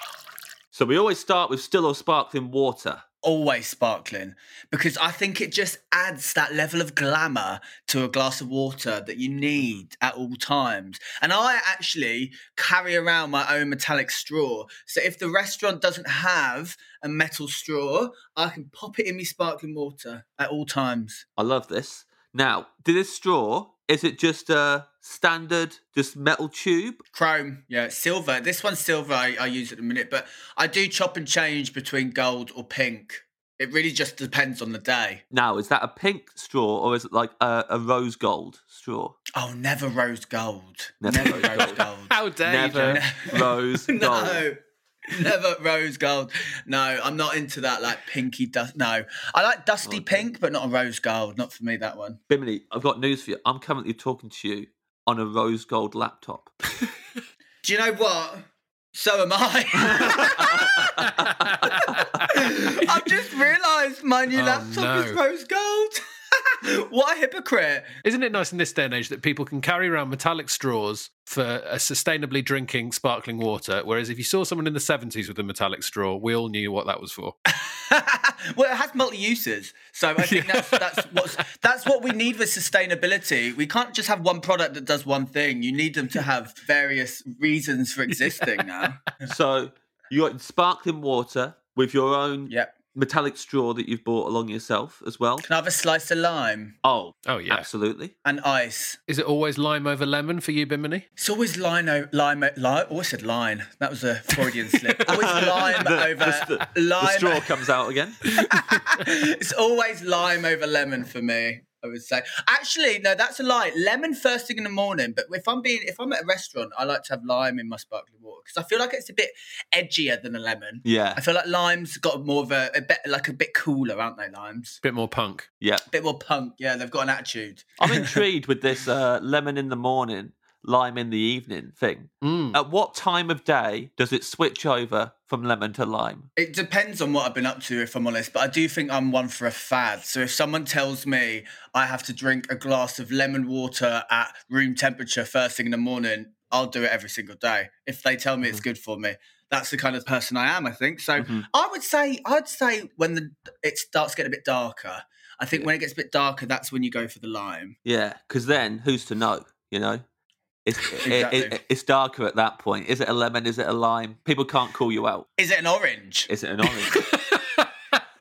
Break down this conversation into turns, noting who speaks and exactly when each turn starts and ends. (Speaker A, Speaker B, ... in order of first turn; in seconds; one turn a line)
Speaker A: 0.7-3.0
Speaker B: 3.2-21.2
Speaker A: 21.4-27.1
Speaker B: 27.1-35.2
Speaker A: 35.3-39.2
Speaker B: 39.4-42.2
Speaker A: 41.0-41.8
Speaker C: 42.1-43.0
Speaker A: 42.5-44.4
Speaker B: 42.8-44.6
Speaker B: 45.1-52.2
Speaker A: 49.9-50.3
Speaker A: 52.3-56.5
Speaker B: 57.6-60.9
Speaker A: 59.9-61.1
Speaker C: 61.0-62.2
Speaker A: 61.7-62.0
Speaker B: 61.9-68.0
Speaker C: 64.3-65.2
Speaker C: 68.0-77.3
Speaker B: 77.5-89.0
Speaker C: 80.3-81.4
Speaker C: 88.4-88.8
Speaker A: 89.3-95.5
Speaker B: 92.5-92.8
Speaker B: 95.4-96.8
Speaker A: 96.8-98.1
Speaker C: 97.2-97.7
Speaker B: 98.2-99.0
Speaker C: 99.1-101.0
Speaker B: 101.2-107.4
Speaker C: 104.4-105.9
Speaker A: 105.1-108.2
Speaker C: 108.4-108.8
Speaker B: 108.5-124.8
Speaker A: 120.8-121.2
Speaker C: 124.8-125.5
Speaker B: 125.9-128.2
Speaker A: 127.8-136.3
Speaker C: 132.2-132.6
Speaker B: 136.4-157.8
Speaker A: 151.2-151.5
Speaker A: 157.8-160.0
Speaker A: 160.7-165.3
Speaker B: 161.0-161.6
Speaker B: 165.4-166.3
Speaker A: 166.3-167.0
Speaker C: 166.9-167.9